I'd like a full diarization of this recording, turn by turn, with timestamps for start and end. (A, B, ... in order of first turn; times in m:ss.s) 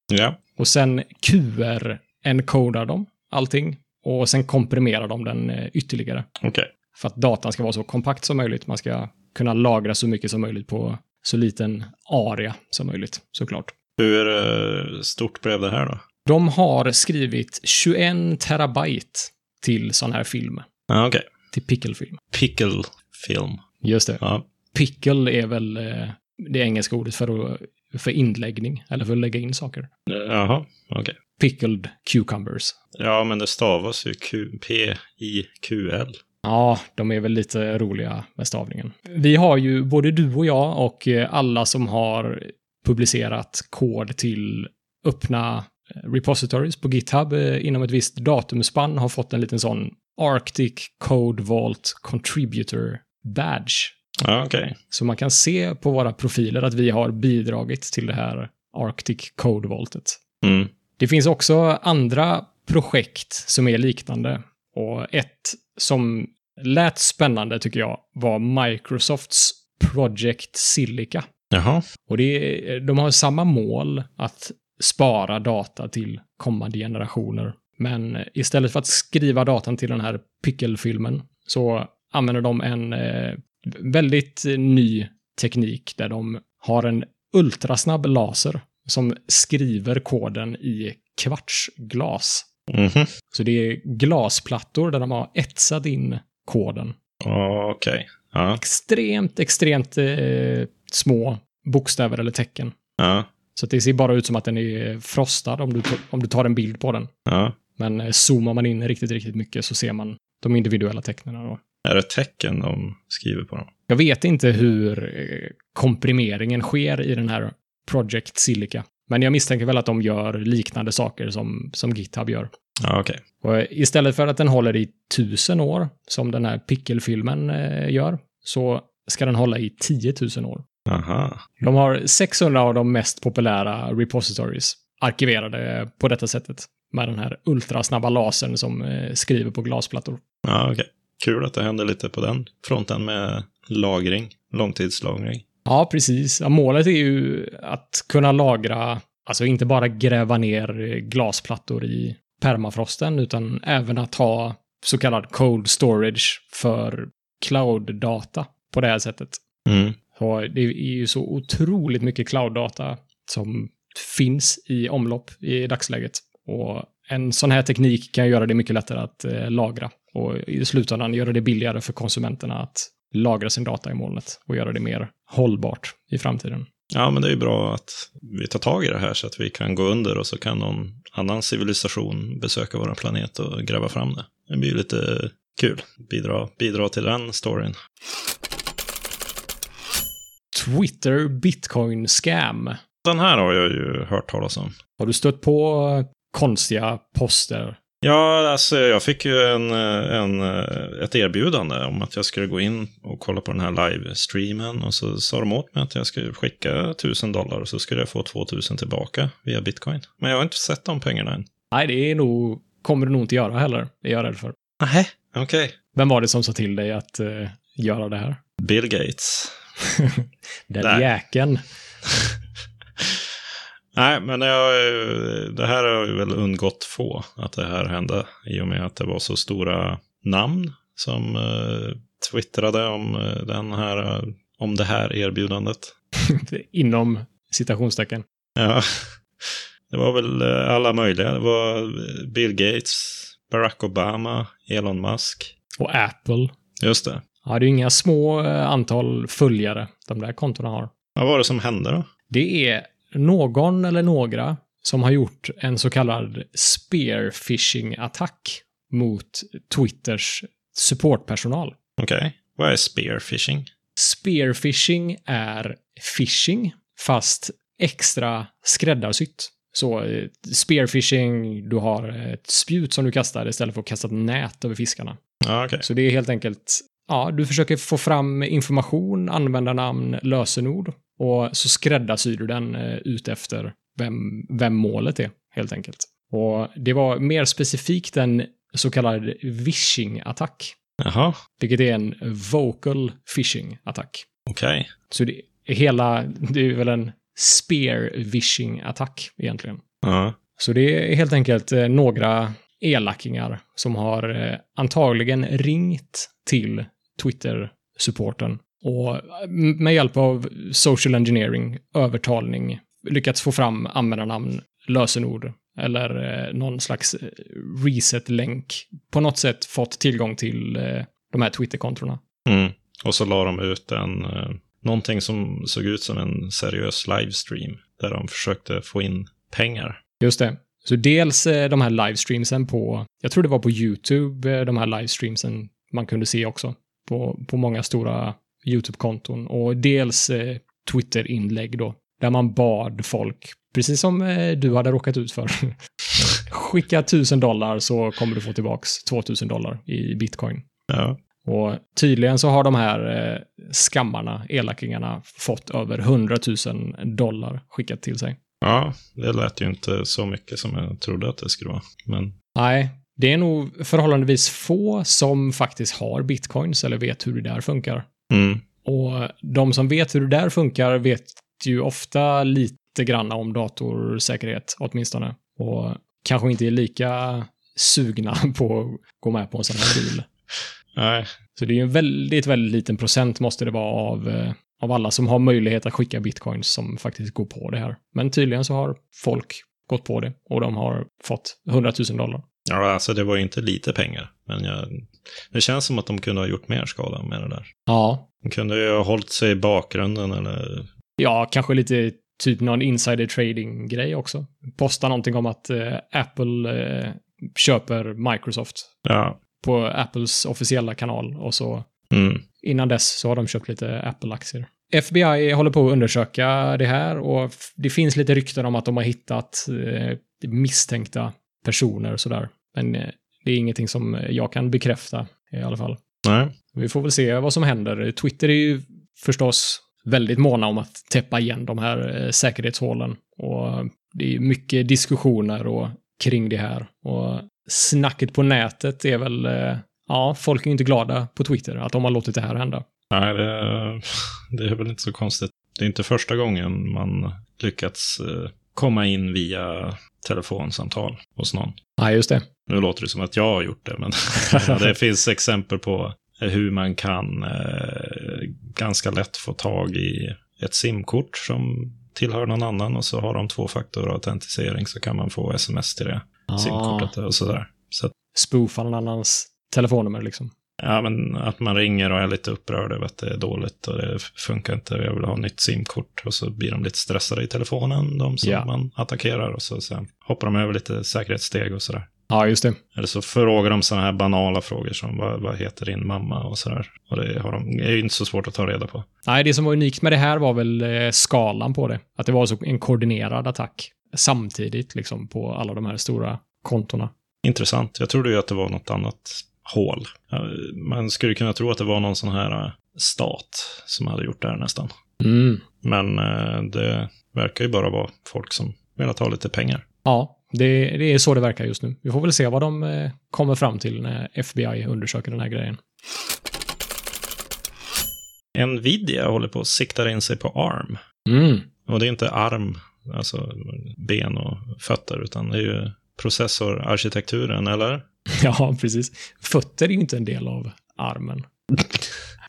0:00.1-0:00.4 A
0:00.6-0:06.2 B
0:06.4-0:06.7 A
0:06.9-0:13.7 B
0:14.0-0:16.0 A
0:16.2-0:20.6 B
0:20.9-0:21.3 A
0:21.5-0:22.2 B
0:22.3-0:23.6 A
0:23.8-0:24.2 B
0:24.2-0:24.4 A
0:24.7-0:29.9 B
0:30.1-0:31.2 A
0:31.4-0:32.8 B
0:32.9-0:36.2 A
0:36.4-0:53.9 B
0:54.2-0:54.8 A
0:54.9-1:00.2 B
1:00.4-1:00.7 A
1:01.0-1:11.3 B
1:11.5-1:11.8 A
1:12.1-1:32.5 B
1:32.7-1:33.1 A
1:33.3-1:37.0 B
1:37.2-1:38.6 A
1:38.6-1:42.7 B
1:43.0-1:43.3 A
1:43.5-1:47.1 B
1:47.3-1:47.6 A
1:47.8-1:51.6 B
1:51.8-1:53.7 A
1:53.9-2:02.5 B
2:02.8-2:03.2 A
2:03.4-2:10.6 B
2:10.9-2:11.4 A
2:11.6-2:20.2 B
2:20.4-2:25.4 A
2:25.6-2:39.4 B
2:39.7-2:40.0 A
2:40.1-2:56.7 B
2:56.9-3:07.8 A
3:10.5-3:12.8 B
3:13.0-3:14.7 A
3:15.0-3:17.8 B
3:18.0-3:31.4 A
3:31.7-3:34.5 B
3:34.8-3:35.7 A
3:35.9-3:38.4 B
3:38.6-3:39.5 A
3:40.0-3:41.6 B
3:40.8-3:41.1 A
3:43.9-3:55.9 A
3:56.3-3:58.2 B
3:58.6-4:05.5 A
4:05.8-4:06.5 B
4:06.8-4:07.2 A
4:07.4-4:10.9 B
4:11.2-4:12.1 A
4:12.3-4:21.7 B
4:22.0-4:23.7 A
4:24.0-4:35.2 B
4:35.4-4:35.8 A
4:35.8-4:50.7 B
4:51.0-4:51.4 A
4:51.6-4:54.2 B
4:54.5-4:54.9 A
4:55.1-4:59.8 B
5:00.0-5:00.4 A
5:00.6-5:22.2 B
5:22.4-5:30.0 A
5:30.2-5:50.6 B
5:50.9-5:51.2 A
5:51.4-5:58.4 B
5:58.6-6:02.3 A
6:02.6-6:08.1 B
6:08.3-6:08.6 A
6:08.8-6:20.2 B
6:20.9-6:21.3 A
6:21.6-6:32.4 B
6:32.7-6:37.7 A
6:37.9-6:38.2 B
6:38.4-6:40.9 A
6:41.2-6:48.9 B
6:49.0-6:49.4 A
6:49.6-6:51.9 B
6:52.1-6:52.4 A
6:52.6-7:06.0 B
7:06.2-7:06.5 A
7:06.7-7:22.8 B
7:23.1-7:31.8 A
7:32.0-7:32.4 B
7:32.7-7:48.1 A
7:34.5-7:34.8 B
7:46.5-7:47.1 B
7:48.3-7:50.5 B
7:50.8-8:02.1 A
7:58.4-7:58.7 B
8:02.3-8:02.8 B
8:02.9-8:09.0 A
8:09.2-8:17.1 B
8:17.4-8:24.9 A
8:25.2-8:25.6 B
8:25.8-8:29.8 A
8:30.0-8:35.8 B
8:38.5-8:41.0 A
8:41.3-8:41.7 B
8:41.8-8:48.0 A
8:48.4-8:51.5 B